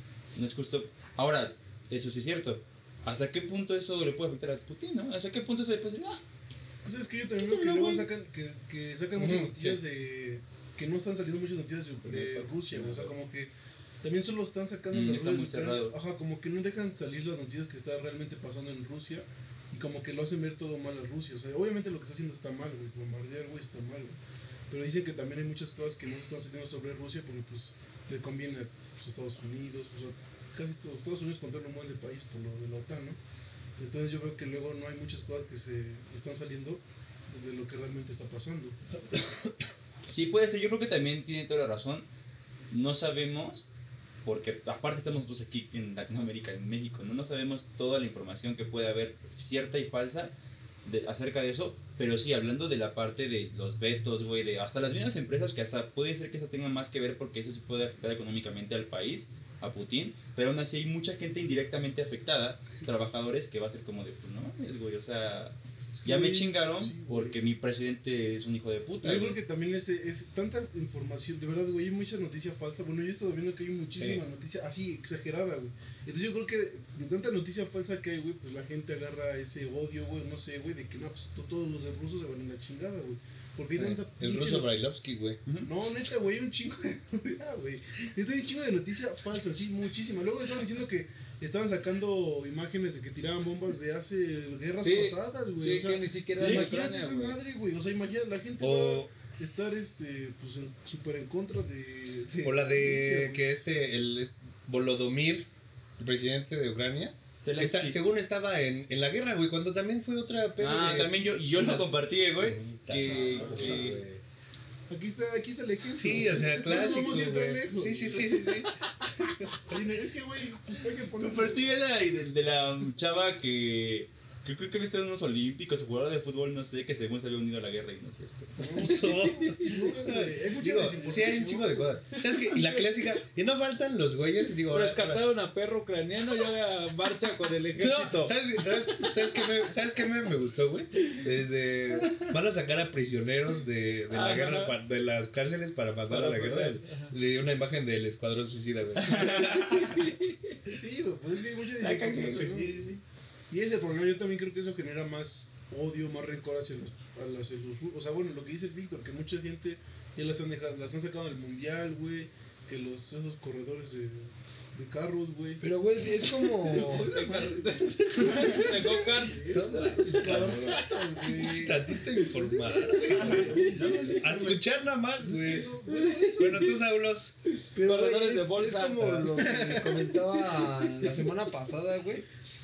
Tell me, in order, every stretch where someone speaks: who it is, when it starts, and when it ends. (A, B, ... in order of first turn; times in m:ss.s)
0:00.4-0:06.2 A
0:06.8-0:13.5 B
0:07.4-0:08.1 C
0:09.2-0:09.8 C
0:12.0-0:13.1 A
0:14.0-0:33.2 B
0:14.9-0:16.0 A
0:33.8-0:38.8 B
0:40.1-0:42.1 A
0:42.7-0:43.7 A
0:44.2-0:50.3 A
0:50.8-1:09.4 A
1:06.0-1:07.4 B
1:09.0-1:24.7 B
1:23.8-1:25.4 C
1:25.5-1:25.7 A
1:25.7-1:43.4 B
1:34.8-1:37.4 D
1:38.6-1:39.1 C
1:42.4-1:54.2 C
1:47.4-1:48.0 A
1:50.6-1:54.0 A
1:53.0-1:53.9 B
1:54.9-1:58.5 B
1:56.0-1:59.5 C
1:59.7-2:01.7 B
2:01.2-2:08.7 A
2:08.6-2:11.9 B
2:08.7-2:15.2 C
2:09.0-2:09.7 D
2:12.1-2:12.9 D
2:14.7-2:18.4 D
2:17.8-2:30.0 C
2:24.1-2:24.8 D
2:26.1-2:27.1 D
2:29.0-2:30.0 A
2:30.0-2:30.6 D
2:30.7-2:32.8 B
2:31.8-2:33.0 A
2:33.5-2:45.6 B
2:45.6-2:47.2 E
2:46.6-2:54.6 B
2:46.8-2:50.7 D
2:48.2-2:48.8 C
2:49.5-2:55.8 C
2:53.1-2:54.6 A
2:55.2-2:56.8 B
2:55.9-2:56.7 D
2:56.3-2:57.3 C
2:57.7-3:02.3 E
2:57.8-2:59.1 D
2:59.0-3:00.2 C